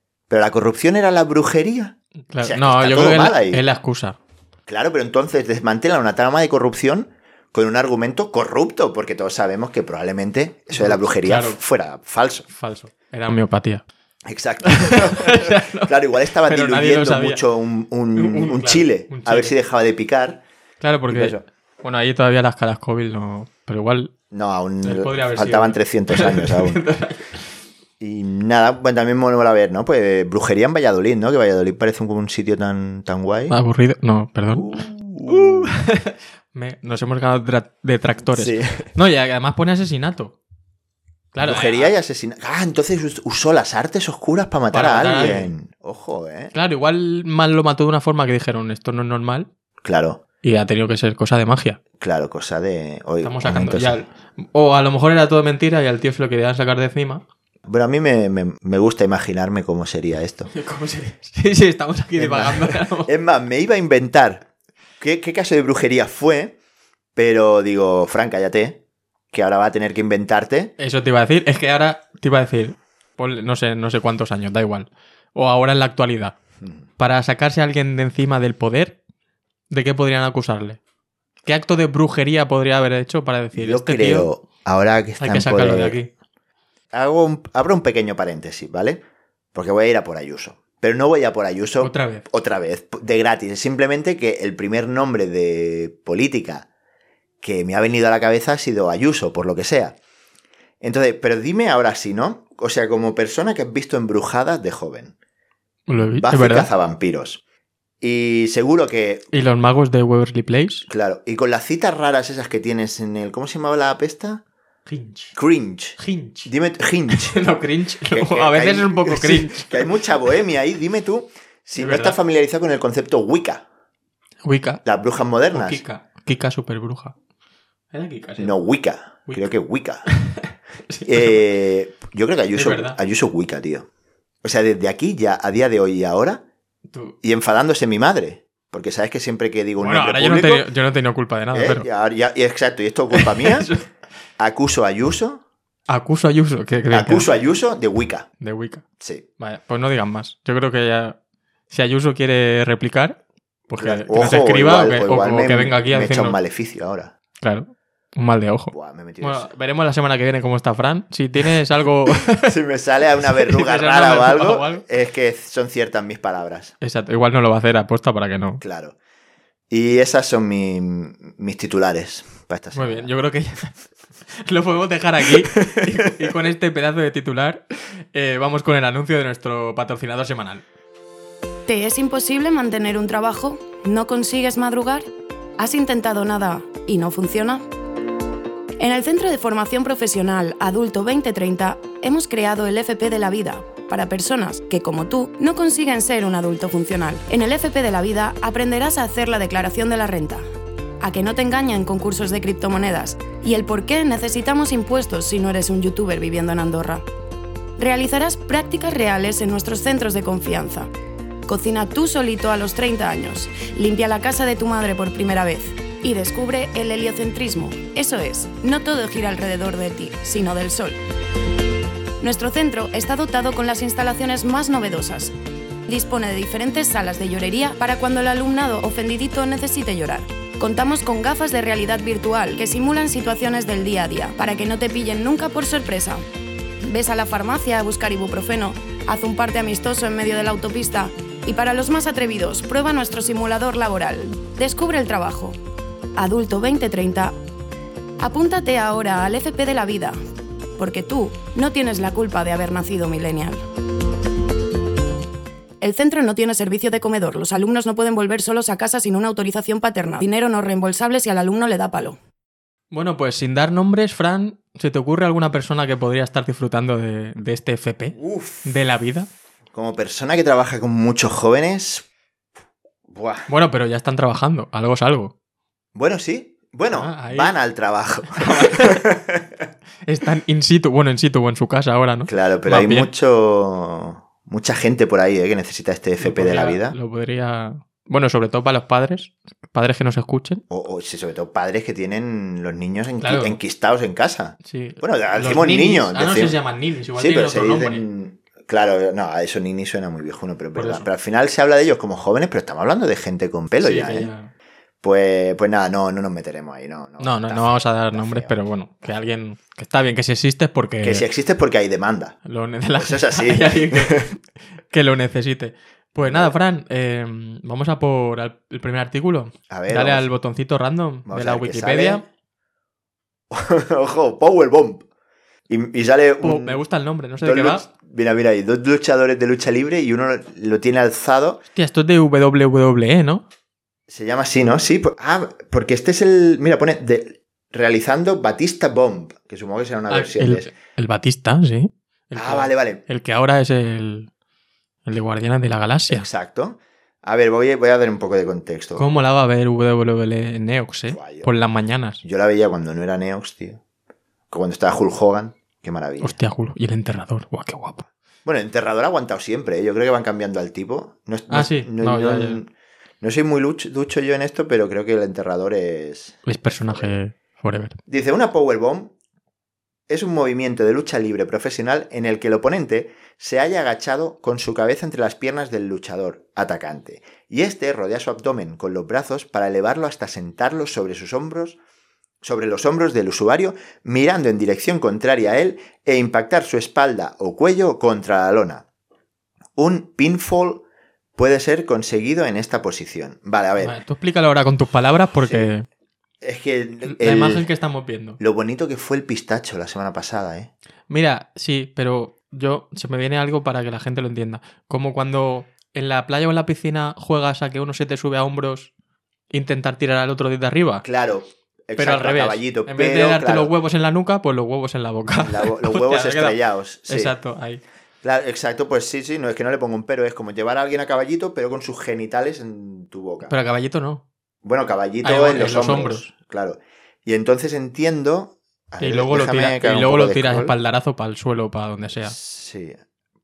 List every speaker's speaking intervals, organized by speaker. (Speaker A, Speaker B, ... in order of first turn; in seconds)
Speaker A: 0.3-3.6, 4.7-12.5, 14.3-20.4, 21.1-21.4, 24.3-26.8, 28.0-33.5, 34.5-35.7, 38.3-38.9, 41.4-46.5, 49.8-50.2, 52.0-54.0, 57.6-60.5, 62.2-64.5, 65.0-66.5, 67.2-68.8, 69.3-70.7, 83.5-86.0, 86.9-89.0, 89.5-96.7, 97.4-100.0, 100.8-105.1, 106.2-107.4, 108.0-109.3, 110.9-114.4, 115.3-117.4, 118.1-123.6, 124.8-125.8, 128.4-130.1, 131.1-133.9, 134.4-136.4, 137.2-140.7, 141.5-143.7, 144.4-145.4, 146.9-148.3, 149.0-149.2, 153.8-157.1, 158.7-159.5, 162.2-166.7, 168.6-168.9, 169.7-173.1, 268.1-268.7, 269.7-272.1, 273.1-273.5, 275.9-279.6, 282.3-286.9, 290.7-296.6, 297.1-304.3, 305.0-308.6, 311.0-312.4, 312.9-314.3, 316.2-316.5, 319.7-320.3, 321.3-322.2, 323.5-325.1, 325.7-326.8, 327.4-331.6, 334.1-340.7, 342.3-343.0, 346.1-349.0, 351.1-351.5, 352.2-353.8, 354.5-356.4, 358.4-367.1, 368.1-369.1, 370.1-381.8, 382.4-388.8, 389.8-390.8, 391.4-393.9, 395.4-395.7, 396.4-397.6, 398.4-400.7, 411.0-413.7, 415.4-417.3, 418.2-423.5, 424.6-430.7, 432.2-433.0
Speaker B: 2.3-4.2, 10.7-11.6, 12.5-13.8, 14.6-17.4, 18.1-19.5, 20.8-24.1, 24.8-27.4, 33.5-40.3, 41.3-41.9, 44.7-45.5, 46.5-49.5, 50.4-51.8, 53.2-57.2, 60.5-63.1, 70.8-76.4, 77.0-79.0, 79.7-80.8, 81.5-84.3, 85.2-86.1, 91.8-92.2, 105.9-106.7, 109.3-110.9, 114.9-115.3, 116.0-116.5, 117.1-119.9, 121.8-122.2, 124.4-124.8, 125.5-127.1, 127.9-128.5, 130.1-131.4, 132.5-133.0, 136.9-137.2, 139.8-141.8, 143.1-143.9, 145.9-147.3, 148.4-148.8, 149.4-151.2, 151.7-156.4, 157.4-162.5, 163.2-164.8, 166.8-168.6, 172.7-173.8, 174.3-180.6, 262.9-269.3, 273.5-275.3, 276.9-277.5, 278.3-279.0, 280.1-283.1, 286.2-290.6, 293.2-293.6, 294.6-298.0, 300.7-301.1, 303.8-304.5, 307.2-311.2, 312.4-322.2, 326.4-327.9, 331.7-333.4, 340.1-344.3, 345.1-346.3, 348.9-352.2, 356.2-358.1, 361.5-362.6, 366.4-368.0, 393.8-395.9, 397.0-398.4, 401.1-408.9, 409.5-411.0, 412.0-416.6, 417.1-417.8, 423.4-424.2, 425.2-426.2, 429.0-432.3
Speaker C: 181.7-185.1, 185.6-187.6, 188.8-200.4, 201.0-207.0, 207.8-210.9, 211.5-221.0, 222.2-225.3, 225.9-236.2, 236.8-245.6, 246.2-247.3, 248.2-250.2, 250.8-253.6, 255.8-262.2